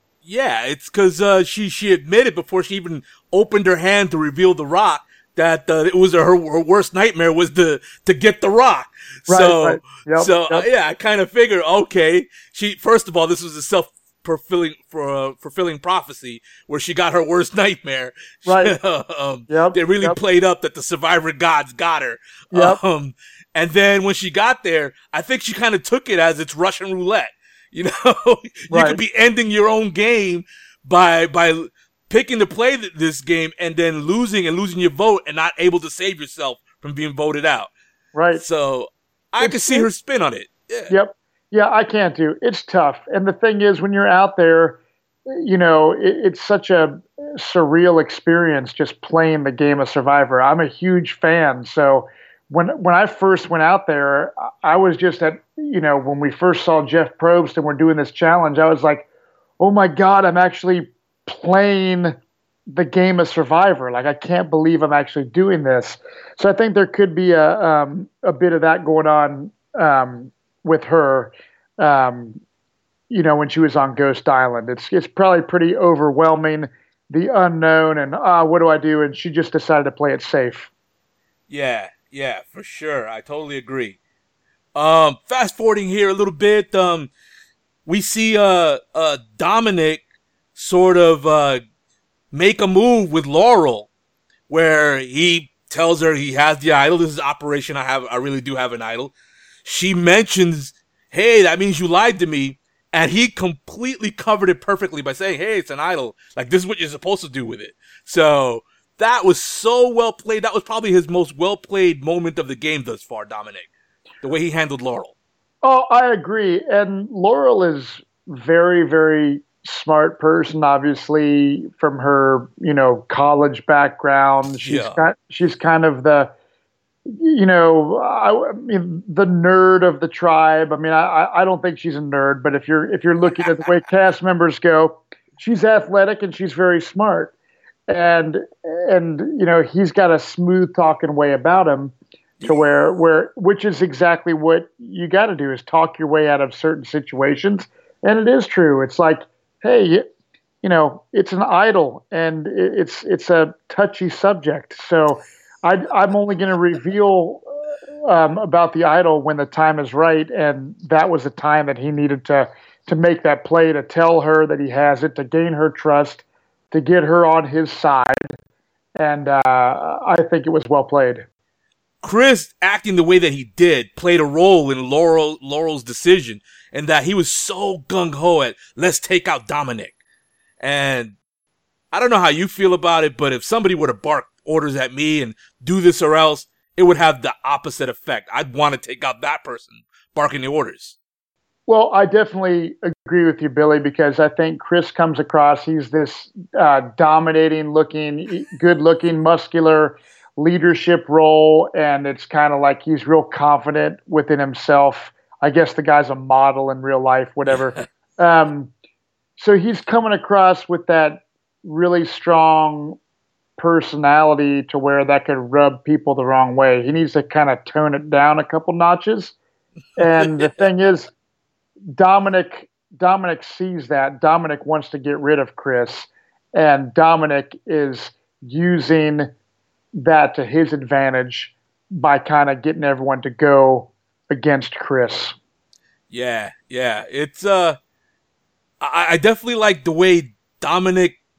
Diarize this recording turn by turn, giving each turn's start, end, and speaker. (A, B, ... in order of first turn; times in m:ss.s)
0:00.2-0:37.7 A
0:09.3-0:10.6 B
0:18.4-0:18.8 B
0:19.5-0:20.2 B
0:22.5-0:22.8 B
0:28.7-0:29.0 B
0:38.1-0:38.4 B
0:38.3-0:40.9 A
0:39.4-0:39.9 B
0:40.9-0:59.1 B
0:59.6-1:02.1 B
1:02.7-1:12.4 B
1:13.1-1:20.7 B
1:21.5-1:24.0 A
1:24.7-1:27.1 A
1:27.8-1:30.0 A
1:30.5-1:31.6 A
1:32.3-1:33.9 A
1:34.5-1:39.1 A
1:39.6-1:53.7 A
1:54.2-1:55.1 A
1:55.6-2:06.3 B
2:04.6-2:05.0 A
2:07.1-2:17.3 B
2:17.9-2:21.9 B
2:22.4-2:30.0 B
2:30.6-2:48.3 B
2:49.0-2:51.2 B
2:52.0-2:59.9 A
3:00.6-3:01.1 A
3:01.9-3:11.0 A
3:11.7-3:28.7 B
3:29.4-3:33.0 B
3:33.6-3:39.4 B
3:40.0-3:41.1 B
3:40.1-3:40.5 A
3:41.9-3:49.3 B
3:50.0-3:55.4 B
3:56.1-3:57.8 A
3:58.8-4:01.2 A